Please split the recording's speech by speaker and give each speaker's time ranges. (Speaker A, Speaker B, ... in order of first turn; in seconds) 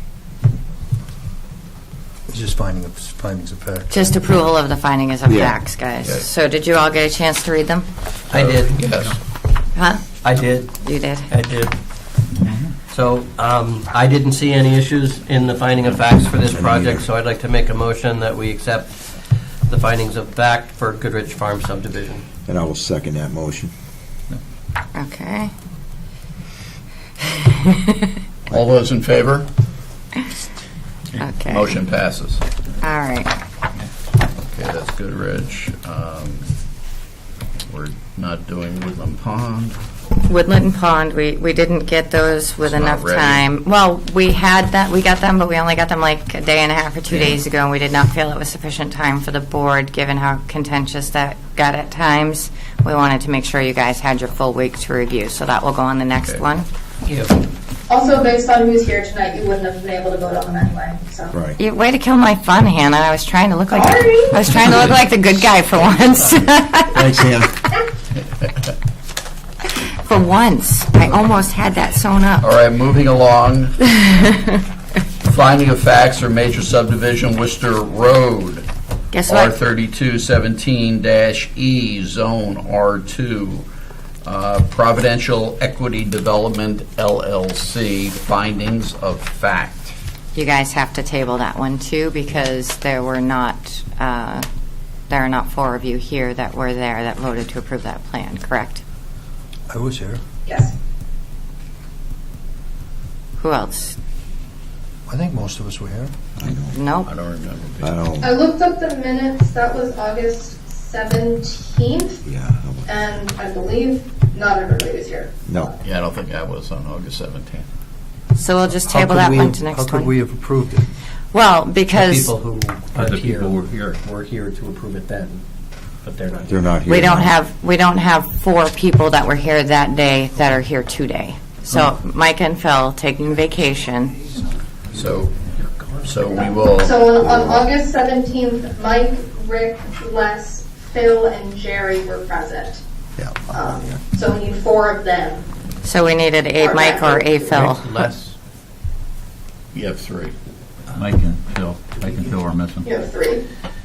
Speaker A: 2.3-4.2, 99.7-100.2, 105.1-106.1, 118.8-120.9
Speaker B: 3.9-7.9, 9.7-11.3, 24.9-25.5, 27.2-28.1, 31.2-31.7, 32.8-33.3, 40.2-56.7, 61.6-67.1, 69.7-72.5, 74.1-74.5, 79.1-79.6, 90.3-94.5, 95.1-98.8, 103.4-104.0, 106.7-107.1, 118.3-120.1, 121.3-122.3, 126.9-134.3, 145.8-147.9
Speaker C: 5.3-5.5, 16.6-17.0, 22.5-23.7, 66.9-67.5, 106.4-106.8, 107.8-108.3, 112.2-112.9, 126.5-127.3, 137.2-137.7, 143.2-143.9
Speaker D: 8.3-9.2, 10.2-18.9, 19.7-22.2, 57.1-57.4, 121.9-125.4, 126.0-126.6, 147.5-148.3
Speaker E: 8.3-9.2, 28.5-29.5, 31.5-32.4, 34.5-36.5, 37.7-39.8, 42.6-43.5, 47.1-47.4, 72.4-73.9, 75.2-78.7, 79.3-83.7, 84.2-89.9, 107.0-108.0, 115.8-117.7, 134.9-135.3, 136.0-137.0, 149.7-150.3
Speaker F: 12.4-12.7, 123.0-123.7, 150.9-152.9
Speaker G: 57.9-61.3, 63.7-64.9, 100.5-100.7, 108.2-112.2, 112.9-115.7, 136.8-142.8, 143.5-145.4, 146.6-147.7, 152.8-153.4